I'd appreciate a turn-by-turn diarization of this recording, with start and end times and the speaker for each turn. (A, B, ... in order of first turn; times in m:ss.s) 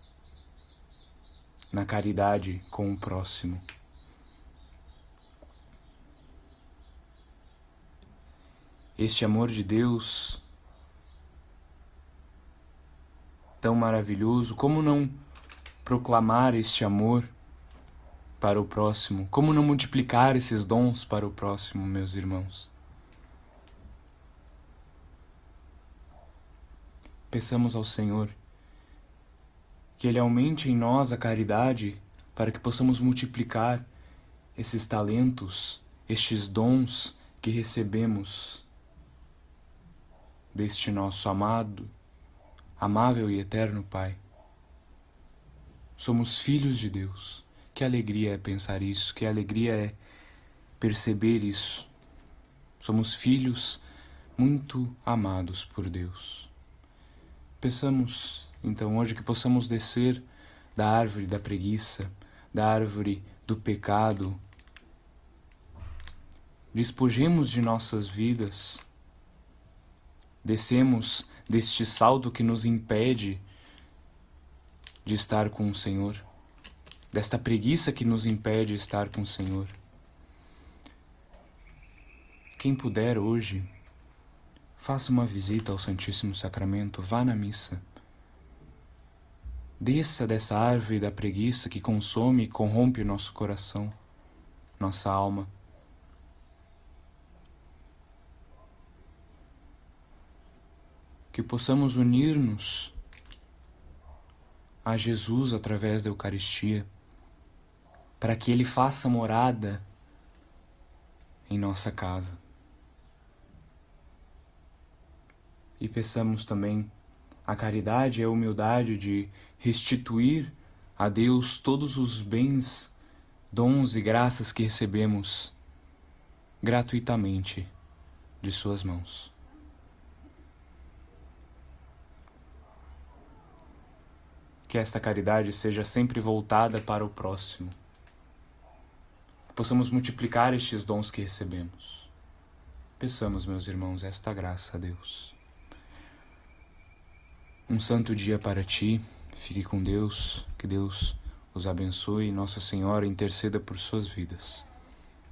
0:01.7-0:03.6 A
0:09.0-0:10.4 A
0:13.6-0:15.2 A
0:15.8-0:17.3 A
0:18.4-0:22.7 A
0:27.3-0:28.4 A
0:30.0-0:33.9 A
0:34.6-0:38.7 A
0:40.5-0:41.9 A
0:42.8-0:44.2 A
0:46.0-0:50.0 A
0:50.8-0:51.9 A
0:52.8-0:53.8 A
0:54.4-0:56.5 A
0:57.6-1:04.4 A
1:06.7-1:08.8 A
1:10.4-1:13.4 A
1:15.0-1:16.2 A
1:17.1-1:19.7 A
1:22.6-1:23.7 A
1:24.8-1:27.8 A
1:29.8-1:34.0 A
1:34.8-1:35.5 A
1:41.3-1:43.0 A
1:44.8-1:46.9 A
1:48.2-1:49.8 A
1:51.5-1:52.4 A
1:55.8-1:56.9 A
1:57.5-2:02.9 A
2:03.5-2:05.6 A
2:06.6-2:07.7 A
2:08.4-2:09.3 A
2:14.7-2:17.8 A
2:19.5-2:22.1 A
2:23.0-2:25.4 A
2:27.7-2:34.7 A